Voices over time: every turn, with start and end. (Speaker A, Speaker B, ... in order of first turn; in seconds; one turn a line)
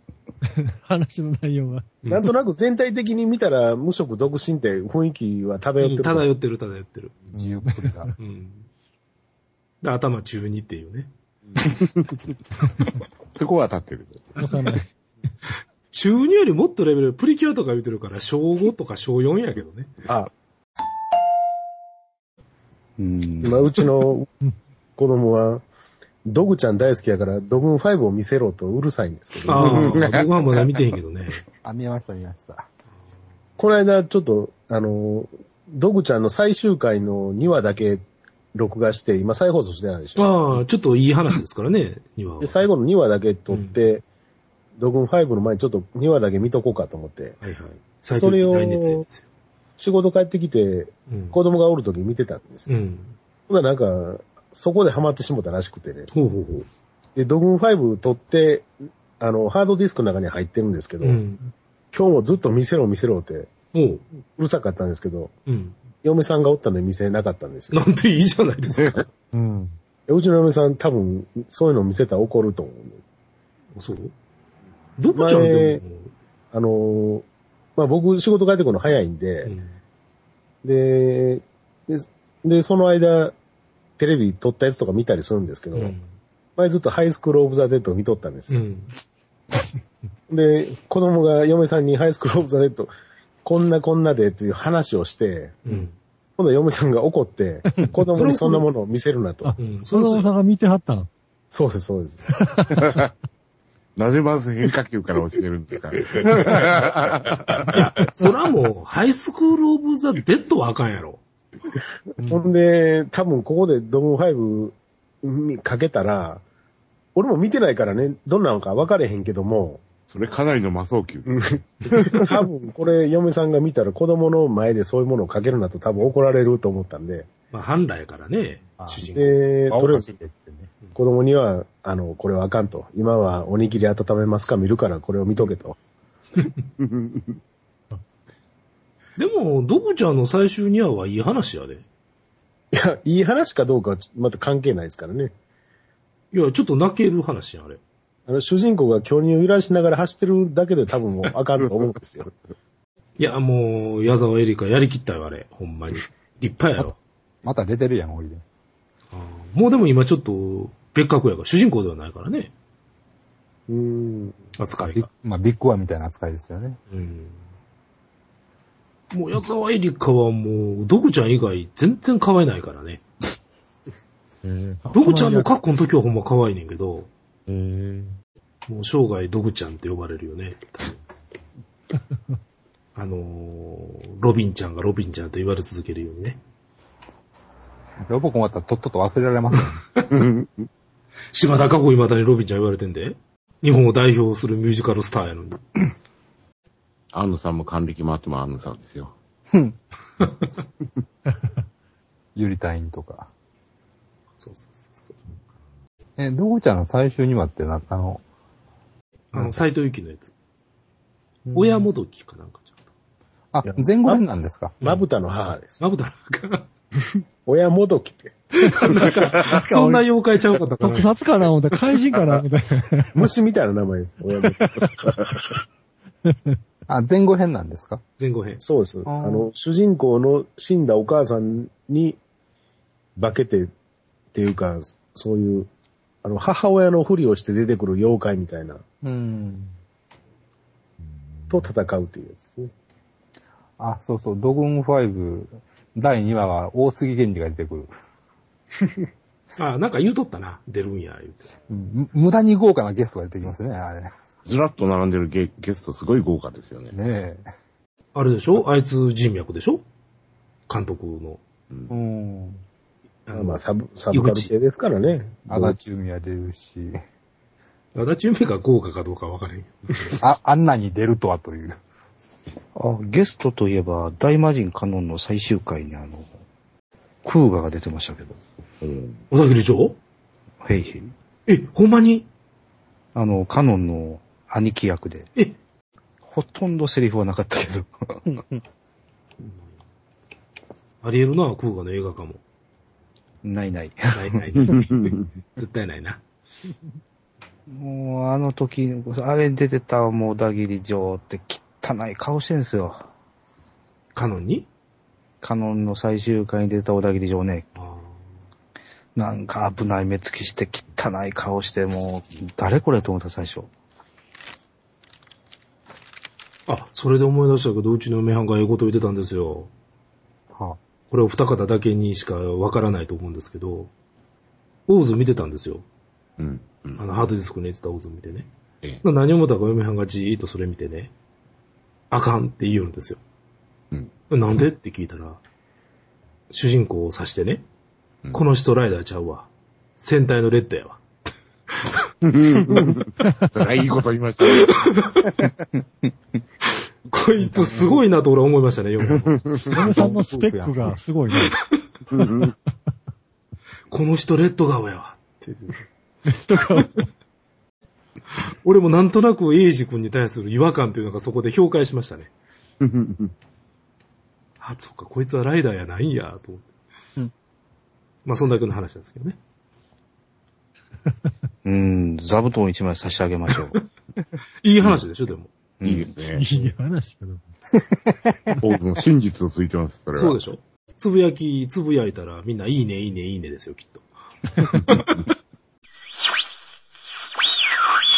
Speaker A: 0.8-2.0
Speaker B: 2.1-6.3
Speaker C: 5.8-7.1
Speaker D: 7.3-8.1
Speaker C: 8.2-8.7
Speaker C: 9.8-11.1
Speaker E: 11.6-12.3
Speaker E: 13.3-14.5
Speaker A: 14.4-14.9
Speaker C: 15.9-19.9
Speaker F: 23.0-23.6
Speaker B: 23.4-24.3
Speaker B: 25.0-25.6
Speaker B: 26.2-29.8
Speaker C: 29.5-31.4
Speaker E: 29.6-30.3
Speaker D: 31.6-32.7
Speaker B: 33.6-38.0
Speaker B: 38.5-40.5
Speaker C: 40.1-42.7
Speaker B: 42.4-44.0
Speaker C: 43.5-43.8
Speaker B: 44.8-47.4
Speaker C: 47.4-49.2
Speaker B: 48.1-49.0
Speaker B: 49.8-52.7
Speaker C: 51.1-51.4
Speaker C: 52.6-53.1
Speaker B: 53.5-56.1
Speaker C: 56.1-56.7
Speaker B: 57.1-61.2
Speaker C: 61.0-61.4
Speaker B: 61.9-63.5
Speaker C: 63.7-64.0
Speaker B: 64.3-65.3
Speaker C: 65.5-65.8
Speaker B: 66.0-67.8
Speaker C: 67.7-69.1
Speaker A: 69.3-69.7
Speaker B: 70.1-73.0
Speaker C: 73.8-74.1
Speaker C: 75.0-76.1
Speaker B: 75.1-75.8
Speaker B: 76.5-77.2
Speaker B: 77.8-79.5
Speaker C: 79.4-79.7
Speaker B: 80.6-83.3
Speaker B: 84.0-85.9
Speaker C: 85.7-86.1
Speaker B: 86.6-88.6
Speaker C: 88.5-88.9
Speaker B: 90.3-92.9
Speaker B: 93.4-95.6
Speaker C: 95.6-96.0
Speaker B: 96.4-99.5
Speaker A: 97.7-97.9
Speaker C: 98.1-98.7
Speaker A: 99.4-101.1
Speaker C: 99.6-100.3
Speaker B: 101.5-102.2
Speaker A: 102.3-102.9
Speaker E: 102.8-103.1
Speaker E: 104.0-108.2
Speaker C: 107.7-111.2
Speaker B: 112.2-116.4
Speaker B: 117.2-119.8
Speaker E: 120.1-122.3
Speaker B: 121.3-127.3
Speaker C: 127.5-129.4
Speaker D: 128.8-129.1
Speaker B: 129.1-130.1
Speaker D: 129.7-130.7
Speaker B: 130.9-135.8
Speaker E: 136.8-137.4
Speaker C: 139.2-141.8
Speaker B: 142.7-145.3
Speaker C: 146.3-147.8
Speaker B: 148.3-152.3
Speaker C: 153.2-156.9
Speaker D: 157.4-158.4
Speaker C: 159.1-162.5
Speaker B: 163.7-164.4
Speaker C: 164.6-165.1
Speaker D: 164.8-166.8
Speaker C: 166.9-167.4
Speaker C: 169.1-173.0
Speaker A: 174.4-175.4
Speaker C: 174.9-177.1
Speaker A: 177.5-178.1
Speaker C: 178.7-180.9
Speaker C: 182.9-186.4
Speaker D: 188.1-189.8
Speaker E: 190.1-190.7
Speaker C: 191.3-195.6
Speaker E: 197.1-199.2
Speaker C: 200.2-200.6
Speaker D: 202.3-203.3
Speaker C: 204.4-205.2
Speaker D: 206.2-208.2
Speaker C: 209.3-210.3
Speaker D: 209.3-209.6
Speaker D: 211.4-211.9
Speaker C: 211.5-212.8
Speaker D: 213.5-214.8
Speaker B: 213.6-214.2
Speaker B: 214.8-215.8
Speaker C: 215.8-216.7
Speaker B: 217.4-218.4
Speaker C: 218.6-221.1
Speaker A: 219.5-220.1
Speaker A: 220.8-223.3
Speaker B: 223.2-224.8
Speaker A: 224.6-224.9
Speaker D: 226.9-228.0
Speaker C: 228.2-228.6
Speaker B: 228.6-232.2
Speaker D: 229.0-229.5
Speaker B: 233.2-233.7
Speaker B: 234.3-235.7
Speaker B: 236.2-238.8
Speaker D: 239.0-239.7
Speaker B: 241.5-242.7
Speaker D: 243.8-247.9
Speaker C: 249.6-251.5
Speaker D: 251.7-254.1
Speaker E: 254.4-256.9
Speaker D: 256.9-257.4
Speaker C: 258.1-259.8
Speaker C: 260.7-261.4
Speaker E: 261.7-261.9
Speaker D: 261.9-262.6
Speaker C: 263.3-264.5
Speaker B: 263.3-265.8
Speaker D: 265.5-267.0
Speaker C: 267.9-270.2
Speaker D: 270.2-271.8
Speaker F: 272.7-276.3
Speaker F: 277.2-278.4
Speaker E: 278.8-279.2
Speaker C: 279.3-280.0
Speaker F: 280.6-281.1
Speaker C: 281.5-282.3
Speaker F: 283.1-285.3
Speaker F: 286.2-288.2
Speaker C: 289.4-289.8
Speaker C: 291.0-292.4
Speaker F: 293.4-294.3
Speaker C: 294.1-296.2
Speaker E: 294.8-295.2
Speaker F: 297.7-303.1
Speaker C: 304.1-304.7
Speaker F: 305.4-307.7
Speaker C: 307.8-308.2
Speaker F: 309.1-313.7
Speaker C: 316.7-319.7
Speaker D: 320.5-320.8
Speaker C: 321.1-323.9
Speaker C: 324.9-325.9
Speaker E: 326.4-327.0
Speaker C: 327.0-328.5
Speaker C: 329.0-331.1
Speaker C: 332.1-333.2
Speaker C: 334.3-335.4
Speaker C: 336.5-337.6
Speaker C: 338.3-341.0
Speaker E: 342.2-345.5
Speaker C: 344.4-345.3
Speaker C: 347.1-349.4
Speaker E: 349.4-349.8
Speaker A: 349.7-351.5
Speaker D: 349.9-350.9
Speaker C: 351.4-351.8
Speaker E: 352.1-352.5
Speaker A: 352.2-352.5
Speaker C: 353.9-355.8
Speaker A: 356.3-357.0
Speaker C: 358.4-362.3
Speaker E: 362.8-363.3
Speaker C: 364.6-366.7
Speaker C: 368.2-369.4
Speaker F: 371.6-373.8
Speaker C: 374.6-375.5
Speaker F: 375.8-376.1
Speaker E: 375.8-376.5
Speaker A: 376.3-377.4
Speaker D: 378.1-378.3
Speaker E: 378.6-380.4
Speaker C: 380.1-385.2